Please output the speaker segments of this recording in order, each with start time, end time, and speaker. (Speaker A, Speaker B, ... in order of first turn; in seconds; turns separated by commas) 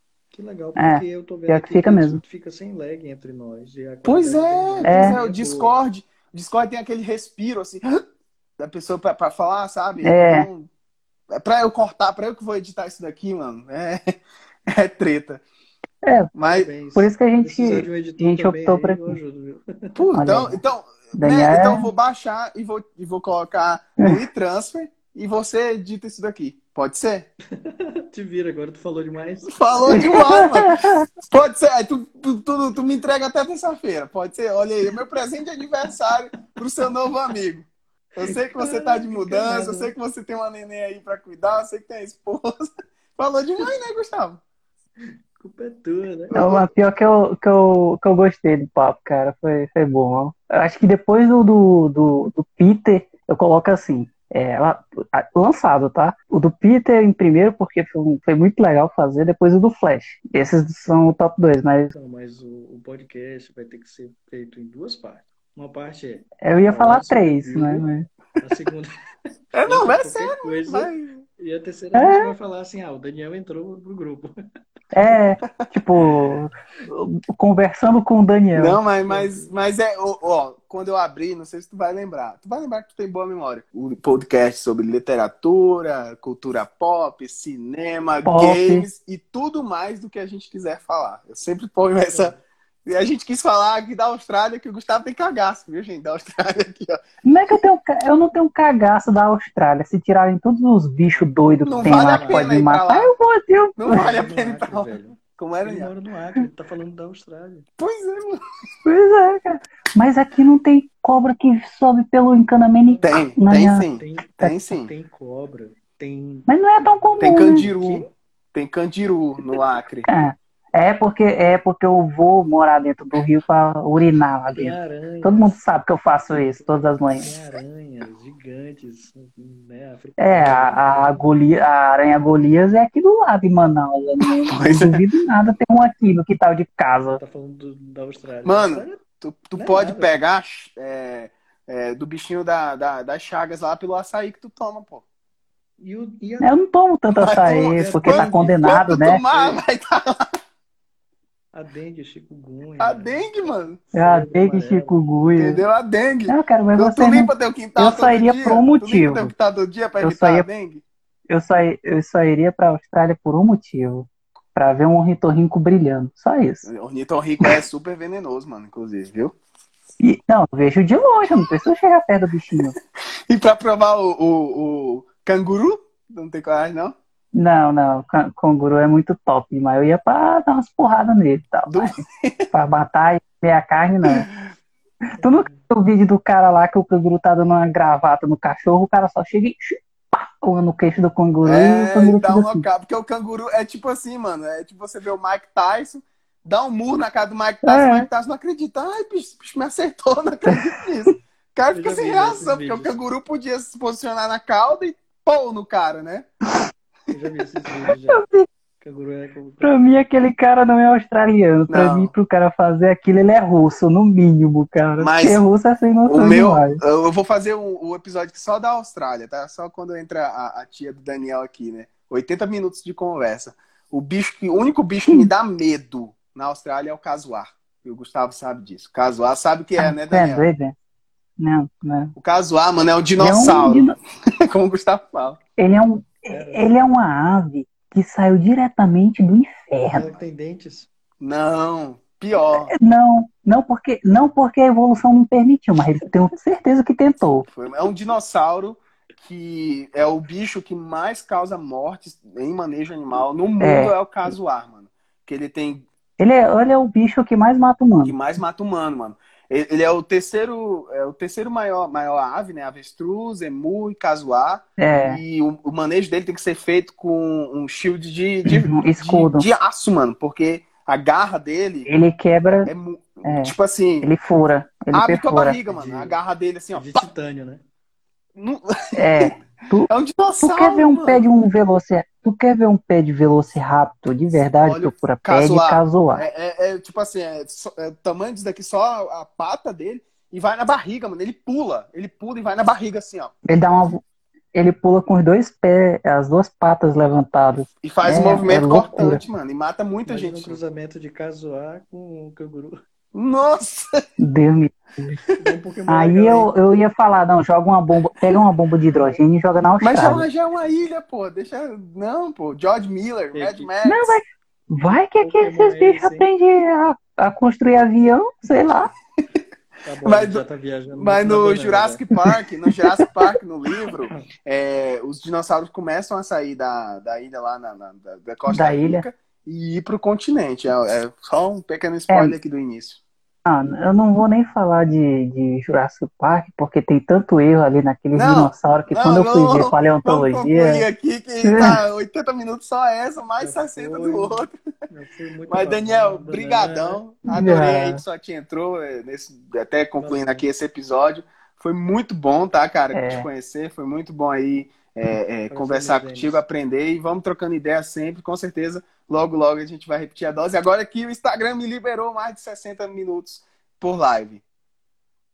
Speaker A: 0.3-5.8, Speaker B: 0.8-2.2, Speaker C: 4.0-8.0, Speaker B: 4.8-5.2, Speaker C: 8.6-10.7, Speaker B: 10.0-10.5, Speaker C: 11.3-15.4, Speaker B: 16.0-16.3, Speaker C: 16.3-16.7, Speaker A: 16.4-20.4, Speaker B: 16.9-19.2, Speaker C: 19.9-27.3, Speaker B: 20.1-20.5, Speaker B: 21.1-21.9, Speaker A: 27.6-30.4, Speaker C: 29.4-37.7, Speaker B: 29.9-31.0, Speaker A: 38.2-39.9, Speaker C: 38.2-44.4, Speaker A: 45.0-46.5, Speaker C: 46.3-46.7, Speaker B: 46.3-61.9, Speaker A: 61.9-67.9, Speaker B: 66.4-68.0, Speaker A: 68.4-68.9, Speaker C: 69.5-71.2, Speaker A: 69.6-74.3, Speaker B: 71.9-72.3, Speaker B: 74.9-78.8, Speaker C: 78.5-97.0, Speaker A: 79.0-79.5, Speaker B: 88.2-88.8, Speaker A: 92.1-92.4, Speaker B: 97.2-104.1, Speaker A: 101.1-102.6, Speaker C: 101.7-103.1, Speaker C: 103.8-105.9, Speaker A: 103.9-107.7, Speaker C: 107.8-108.4, Speaker B: 108.8-113.8, Speaker A: 112.8-113.2, Speaker C: 113.0-114.9, Speaker A: 114.0-116.5, Speaker B: 116.5-117.7, Speaker C: 117.2-120.1, Speaker A: 117.5-118.1, Speaker B: 120.1-127.3, Speaker A: 124.5-125.6, Speaker A: 126.3-131.2, Speaker B: 130.2-137.2, Speaker C: 134.4-135.0, Speaker A: 137.2-139.0, Speaker C: 138.4-145.0, Speaker A: 139.5-140.2, Speaker A: 145.8-146.5, Speaker B: 146.4-149.2, Speaker C: 147.1-150.2, Speaker A: 147.7-148.6, Speaker A: 149.3-149.6, Speaker A: 151.5-155.1, Speaker C: 152.8-153.8, Speaker B: 153.9-155.6, Speaker C: 155.3-160.8, Speaker B: 156.3-159.3, Speaker B: 160.0-160.4, Speaker B: 161.3-166.7, Speaker C: 166.7-169.3, Speaker B: 170.0-172.8, Speaker C: 173.3-176.9, Speaker B: 177.3-181.9, Speaker C: 181.7-182.5, Speaker B: 182.5-184.3, Speaker A: 185.2-185.6, Speaker B: 185.2-192.6, Speaker C: 191.4-206.3, Speaker B: 197.6-198.1, Speaker A: 201.7-203.0, Speaker A: 207.1-208.2, Speaker B: 208.1-208.4, Speaker A: 208.8-209.8, Speaker B: 209.6-216.8, Speaker C: 211.7-212.1, Speaker C: 215.0-215.4, Speaker C: 216.1-230.4, Speaker B: 229.8-230.7, Speaker B: 231.4-232.1, Speaker C: 232.2-235.4, Speaker B: 233.2-233.9, Speaker B: 235.6-240.1, Speaker A: 236.3-236.7, Speaker A: 239.9-240.9, Speaker C: 241.2-242.7, Speaker B: 242.5-247.5, Speaker C: 247.5-255.8, Speaker B: 253.6-253.9, Speaker B: 256.2-258.1, Speaker C: 258.0-271.9, Speaker B: 264.8-265.2, Speaker B: 268.4-269.4, Speaker B: 271.9-272.7, Speaker C: 272.6-274.1, Speaker B: 273.2-275.6, Speaker C: 274.9-277.1, Speaker A: 275.7-276.2, Speaker A: 276.7-277.6, Speaker C: 278.4-281.2, Speaker B: 279.0-286.2, Speaker C: 284.6-293.6, Speaker B: 293.4-294.0, Speaker B: 294.5-299.2, Speaker C: 297.8-300.6, Speaker A: 300.1-302.8, Speaker C: 303.1-304.0, Speaker B: 304.2-305.2, Speaker A: 305.4-306.5, Speaker B: 305.9-310.2, Speaker C: 309.8-314.2, Speaker A: 313.3-313.7, Speaker B: 313.8-318.9, Speaker A: 315.2-316.2, Speaker A: 319.8-322.0, Speaker C: 320.0-320.4, Speaker C: 320.9-333.0, Speaker B: 328.5-329.0, Speaker B: 333.4-340.8, Speaker C: 338.1-344.5, Speaker B: 341.4-341.8, Speaker A: 343.4-347.0, Speaker C: 345.5-364.4, Speaker B: 347.3-348.0, Speaker A: 350.0-350.4, Speaker B: 352.9-353.3, Speaker A: 355.5-356.4